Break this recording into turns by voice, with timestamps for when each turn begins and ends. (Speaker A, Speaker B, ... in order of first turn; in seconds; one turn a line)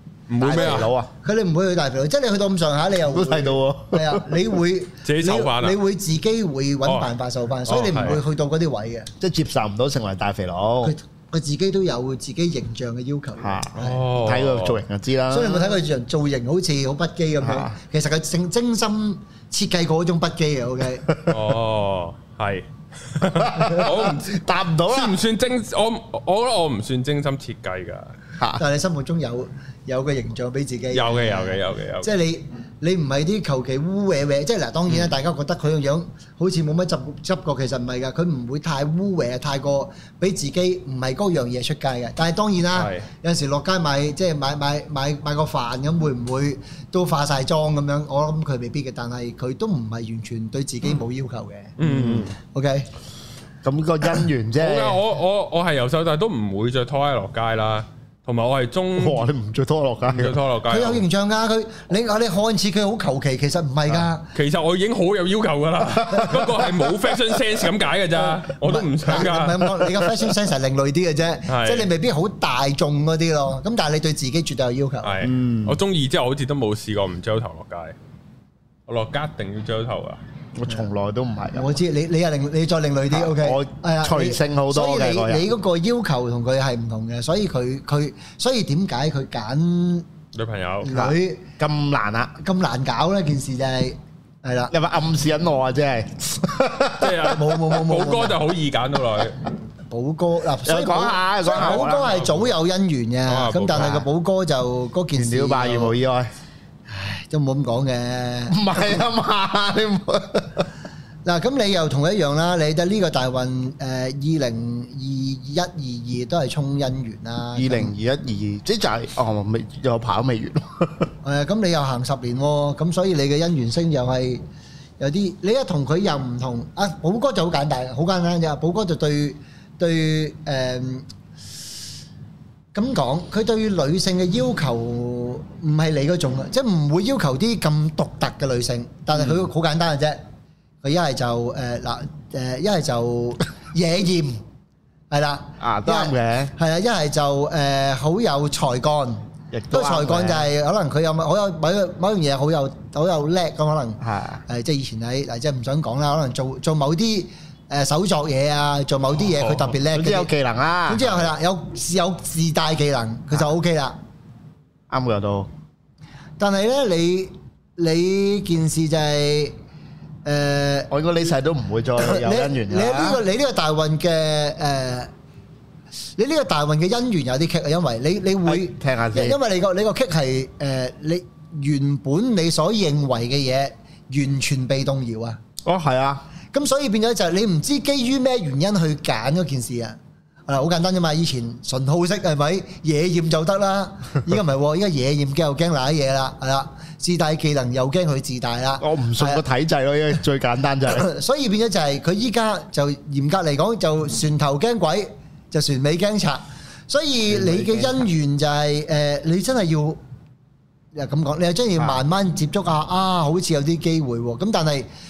Speaker A: 0.3-0.9
Speaker B: 0.4-1.1
Speaker C: 0.5-9.1
Speaker B: 3.1-4.3
Speaker A: 5.0-5.8
Speaker A: 6.8-7.1
Speaker A: 7.7-8.2
Speaker B: 9.2-10.9
Speaker C: 10.8-14.0
Speaker B: 13.4-15.8
Speaker A: 13.8-14.8
Speaker C: 15.3-21.2
Speaker B: 17.4-17.7
Speaker A: 21.3-28.1
Speaker B: 23.2-25.2
Speaker B: 28.4-28.6
Speaker C: 28.6-51.8
Speaker A: 30.9-32.1
Speaker A: 42.7-43.1
Speaker A: 51.8-52.4
Speaker B: 51.8-52.3
Speaker C: 52.4-52.9
Speaker B: 53.6-55.0
Speaker A: 54.6-59.3
Speaker B: 59.0-60.4
Speaker A: 60.1-61.0
Speaker C: 60.7-64.3
Speaker A: 64.3-69.7
Speaker C: 68.3-75.2
Speaker A: 71.5-71.9
Speaker A: 75.0-78.0
Speaker B: 75.2-75.8
Speaker A: 78.9-80.2
Speaker B: 80.5-81.8
Speaker C: 81.5-90.1
Speaker B: 83.1-85.5
Speaker A: 90.3-90.9
Speaker C: 90.8-91.5
Speaker B: 90.9-92.3
Speaker C: 92.4-94.7
Speaker B: 94.7-97.3
Speaker A: 97.0-99.4
Speaker C: 97.3-98.4
Speaker C: 99.9-106.0
Speaker B: 100.7-102.2
Speaker A: 101.5-102.5
Speaker A: 103.3-104.0
Speaker B: 105.1-106.3
Speaker C: 106.9-108.6
Speaker B: 108.5-110.7
Speaker C: 111.2-117.9
Speaker B: 117.6-121.1
Speaker C: 121.2-124.4
Speaker C: 125.0-131.1
Speaker C: 132.7-140.2
Speaker C: 140.8-144.4
Speaker C: 145.1-160.3
Speaker B: 145.6-146.5
Speaker B: 149.5-150.5
Speaker B: 154.0-154.4
Speaker B: 159.8-161.3
Speaker C: 160.9-164.0
Speaker B: 164.9-165.5
Speaker C: 166.4-169.6
Speaker C: 170.2-170.9
Speaker B: 170.9-173.2
Speaker C: 172.0-175.1
Speaker C: 176.2-185.4
Speaker B: 178.4-179.4
Speaker B: 185.6-186.2
Speaker C: 186.5-190.0
Speaker C: 190.5-199.4
Speaker B: 198.8-201.1
Speaker C: 200.9-210.0
Speaker B: 207.3-208.1
Speaker C: 210.9-214.9
Speaker B: 211.8-212.0